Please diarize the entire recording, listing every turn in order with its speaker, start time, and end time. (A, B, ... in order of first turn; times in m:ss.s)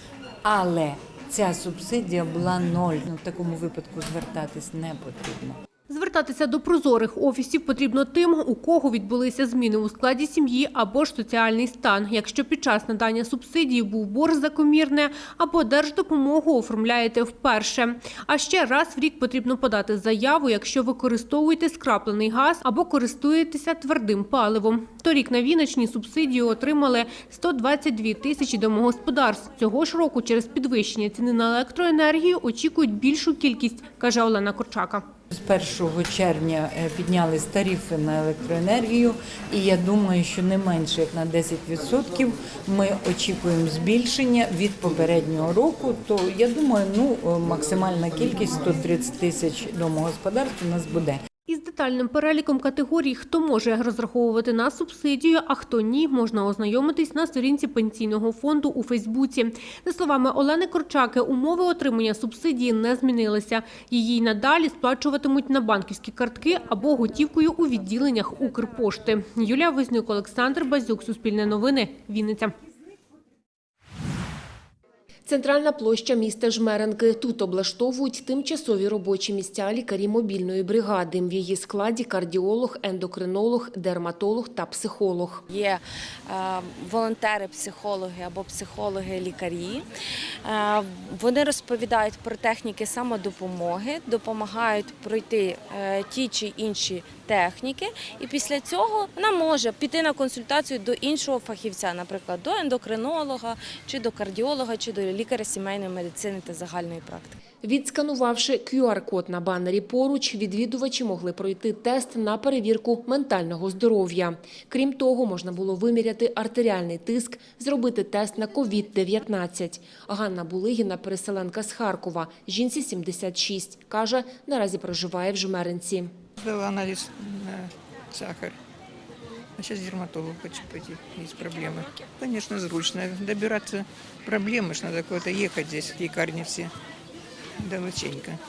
0:00.4-0:05.6 A
0:05.9-0:35.0 B
0:35.3-0:51.2 A
0:51.4-1:12.5 B
1:15.2-1:25.4 C
1:25.5-1:25.8 D
1:26.3-1:29.8 D
1:30.5-1:47.4 D
1:47.6-2:06.1 C
2:06.4-2:08.6 E
2:09.6-2:16.7 E
2:17.6-2:18.4 E